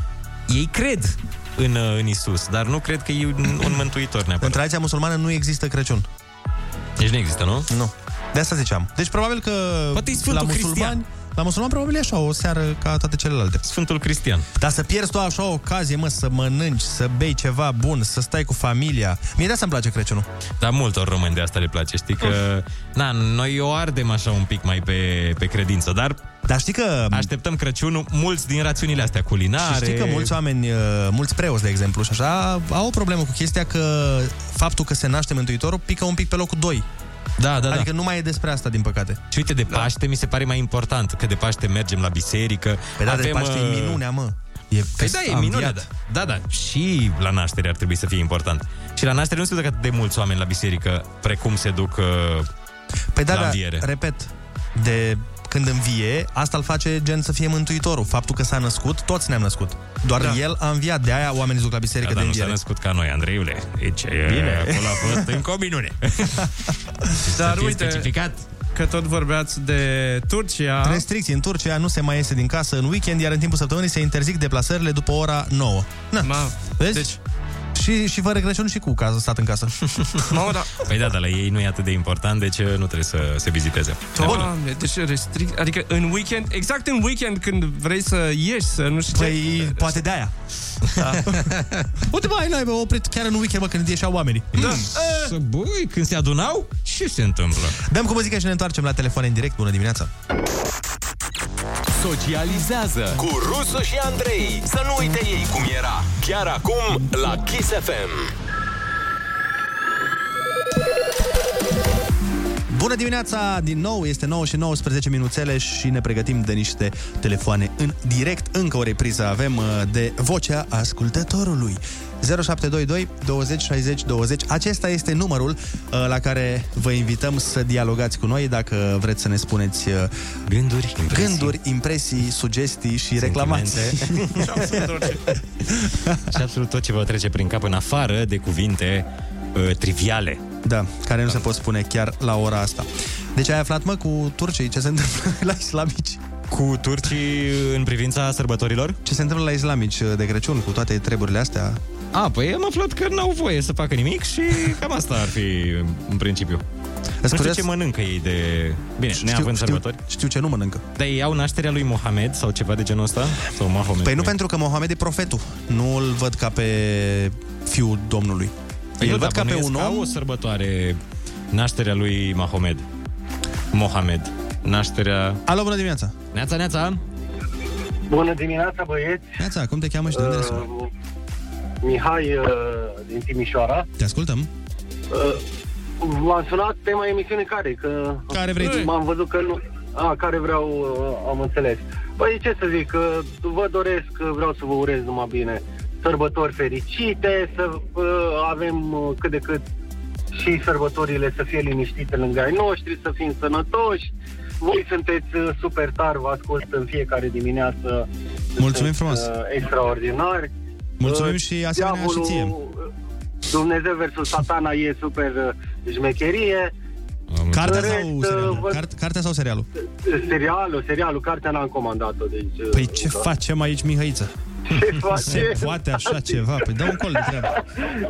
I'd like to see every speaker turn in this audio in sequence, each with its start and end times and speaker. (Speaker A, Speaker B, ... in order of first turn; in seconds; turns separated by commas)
Speaker A: 0.5-4.6, Speaker B: 4.4-6.1, Speaker A: 7.0-7.7, Speaker B: 7.7-13.7, Speaker A: 9.9-11.0, Speaker A: 13.7-14.4, Speaker B: 14.6-20.3, Speaker A: 20.6-26.2, Speaker B: 26.4-27.3, Speaker A: 27.1-30.4, Speaker B: 29.6-36.9, Speaker A: 37.4-37.9, Speaker B: 37.7-39.2, Speaker A: 39.3-44.0, Speaker B: 43.0-45.8, Speaker A: 45.0-52.5, Speaker B: 53.1-62.6, Speaker A: 53.3-53.9, Speaker A: 62.0-66.6, Speaker B: 64.3-65.3, Speaker A: 67.2-68.4, Speaker C: 67.3-68.1, Speaker C: 68.7-71.0, Speaker B: 70.8-77.1, Speaker C: 76.2-77.2, Speaker B: 77.7-79.7, Speaker C: 80.3-80.8, Speaker A: 80.8-84.4, Speaker C: 84.2-90.0, Speaker B: 84.2-84.5, Speaker B: 89.1-90.3, Speaker B: 90.9-94.9, Speaker A: 91.0-91.9, Speaker A: 94.5-97.8, Speaker C: 94.6-95.1, Speaker B: 97.8-100.1, Speaker D: 102.0-108.3, Speaker B: 112.7-130.1, Speaker A: 130.5-131.6, Speaker B: 131.1-134.7, Speaker A: 133.2-134.4, Speaker C: 134.4-135.2, Speaker B: 135.9-136.4, Speaker A: 136.3-140.4, Speaker B: 140.6-146.2, Speaker A: 146.5-149.0, Speaker B: 149.1-151.8, Speaker A: 152.1-156.6, Speaker B: 157.2-157.7, Speaker A: 157.3-160.0, Speaker B: 159.1-160.8, Speaker A: 160.9-164.3, Speaker B: 164.0-170.1, Speaker A: 169.0-171.0, Speaker A: 171.5-172.8, Speaker A: 173.7-175.4, Speaker B: 175.5-176.1, Speaker A: 176.3-177.0, Speaker E: 178.1-179.3, Speaker B: 179.4-180.7, Speaker E: 180.1-180.9, Speaker E: 181.8-183.9, Speaker B: 184.0-184.5, Speaker E: 185.1-185.4, Speaker E: 186.0-199.6, Speaker B: 188.3-188.8, Speaker C: 188.6-188.9, Speaker E: 200.3-208.1, Speaker B: 208.6-209.3, Speaker E: 208.6-210.5, Speaker B: 211.0-212.6, Speaker E: 211.0-212.8, Speaker E: 213.5-216.7, Speaker A: 217.3-217.9, Speaker B: 217.5-219.7, Speaker E: 217.6-218.8, Speaker E: 220.1-223.3, Speaker B: 222.7-224.3, Speaker E: 224.7-226.4, Speaker B: 225.3-227.6